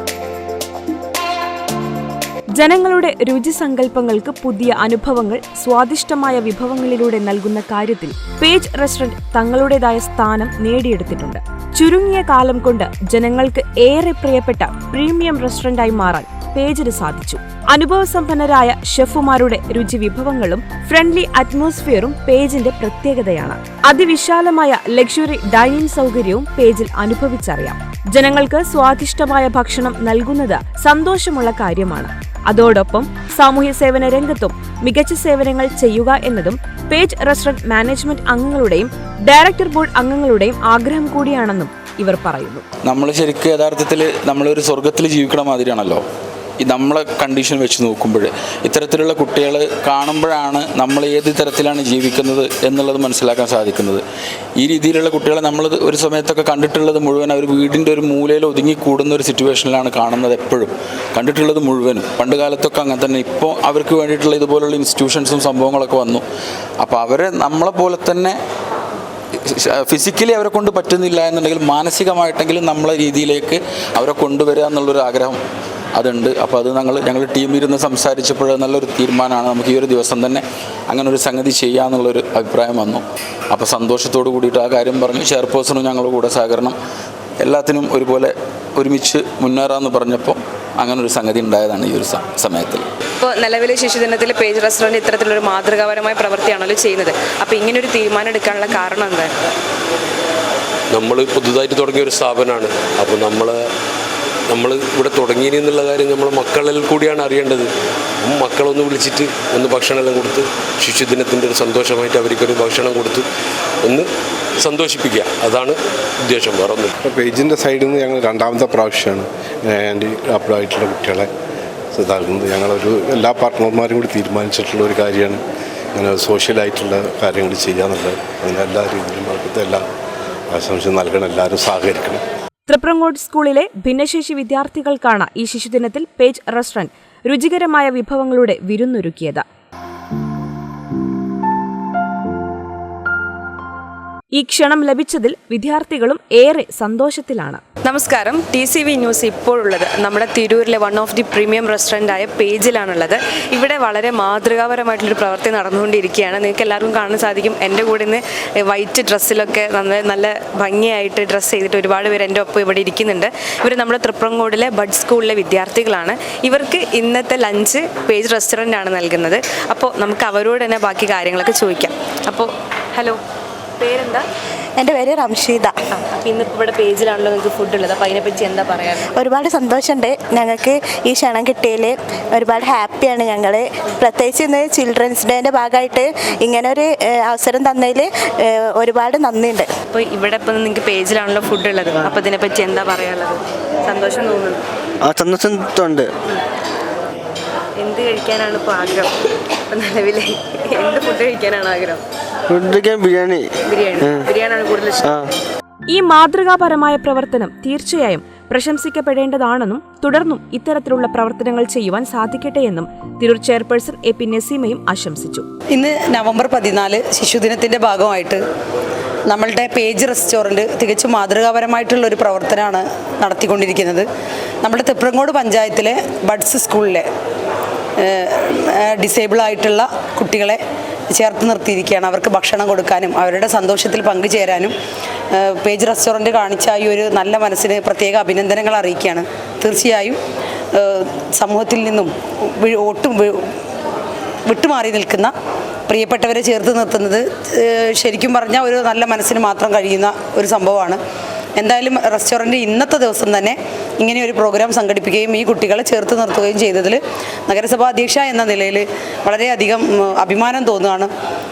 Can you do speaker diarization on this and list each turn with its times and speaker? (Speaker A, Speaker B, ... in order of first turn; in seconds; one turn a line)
Speaker A: 2.5-42.6
Speaker B: 42.8-46.0
Speaker B: 46.6-54.0
Speaker B: 54.6-66.2
Speaker B: 66.8-68.4
Speaker B: 69.6-75.4
Speaker B: 75.9-86.8
Speaker B: 87.4-92.8
Speaker C: 93.2-99.3
Speaker D: 100.9-103.6
Speaker D: 104.5-107.7
Speaker D: 108.2-113.2
Speaker D: 114.6-116.9
Speaker E: 117.0-121.3
Speaker E: 121.9-125.4
Speaker E: 125.9-129.8
Speaker E: 130.5-132.2
Speaker A: 132.7-139.4
Speaker A: 144.3-147.6
Speaker C: 147.8-173.2
Speaker C: 173.8-174.2
Speaker F: 174.8-175.8
Speaker C: 175.9-179.2
Speaker F: 179.2-189.7
Speaker C: 189.9-194.6
Speaker G: 195.1-196.1
Speaker C: 197.8-199.1
Speaker C: 199.7-202.0
Speaker G: 202.5-203.4
Speaker C: 203.7-205.1
Speaker A: 205.9-215.4
Speaker H: 215.7-218.4
Speaker H: 219.3-224.1
Speaker H: 224.6-227.1
Speaker H: 228.0-230.6
Speaker H: 231.1-234.7
Speaker H: 235.3-240.2
Speaker H: 240.7-243.5
Speaker H: 244.5-245.3
Speaker H: 245.9-251.0
Speaker H: 251.6-261.1